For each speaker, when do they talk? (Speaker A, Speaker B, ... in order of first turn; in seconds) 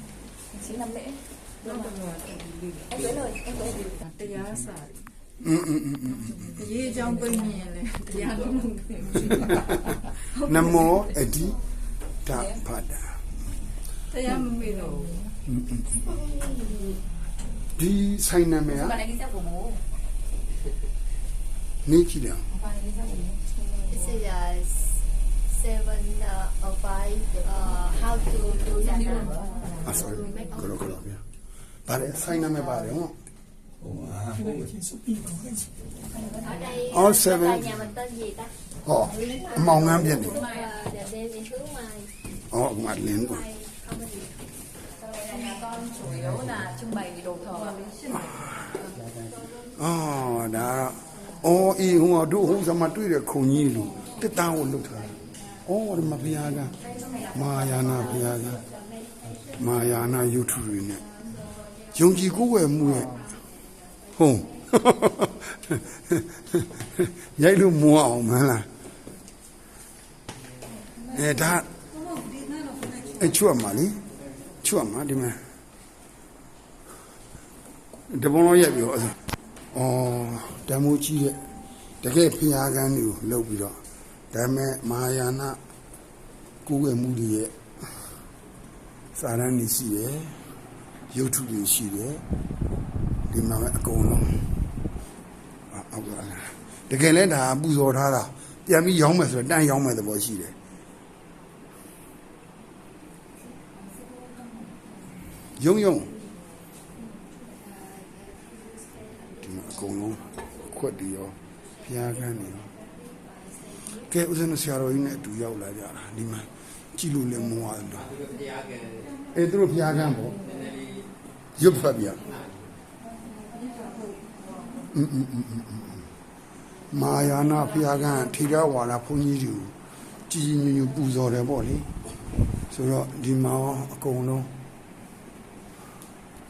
Speaker A: 0.5-2.0, 2.9-4.0, 6.5-9.4, 14.4-15.1, 18.8-19.8, 22.7-24.1, 28.7-30.5, 36.3-36.7, 40.0-40.7, 45.0-48.0, 56.9-57.4
Speaker B: 1.7-2.8, 4.1-4.8, 6.7-8.8, 14.1-15.1
Speaker C: 5.4-6.6, 10.3-11.6, 12.2-13.3, 15.4-16.0, 17.8-19.0, 21.8-22.5, 29.8-31.2, 31.9-33.1, 36.8-37.8, 38.8-40.4, 42.5-43.5, 49.7-56.8, 57.3-58.6, 59.5-61.1, 61.9-63.2, 64.2-68.7, 71.1-71.7, 73.0-74.0, 74.6-75.5, 78.1-79.2, 79.7-81.4, 82.0-83.8, 84.3-85.6, 86.6-87.5, 89.1-90.5, 91.1-92.2, 93.3-94.5, 95.7-100.5, 105.5-106.1, 109.4-112.7, 113.9-118.2, 119.3-120.4, 121.5-122.4, 124.9-126.0, 126.9-129.7, 130.3-131.9, 132.7-134.5
Speaker D: 23.9-29.3, 29.9-30.5, 36.4-38.5, 39.2-42.1, 43.3-44.5, 63.1-63.5, 108.2-108.7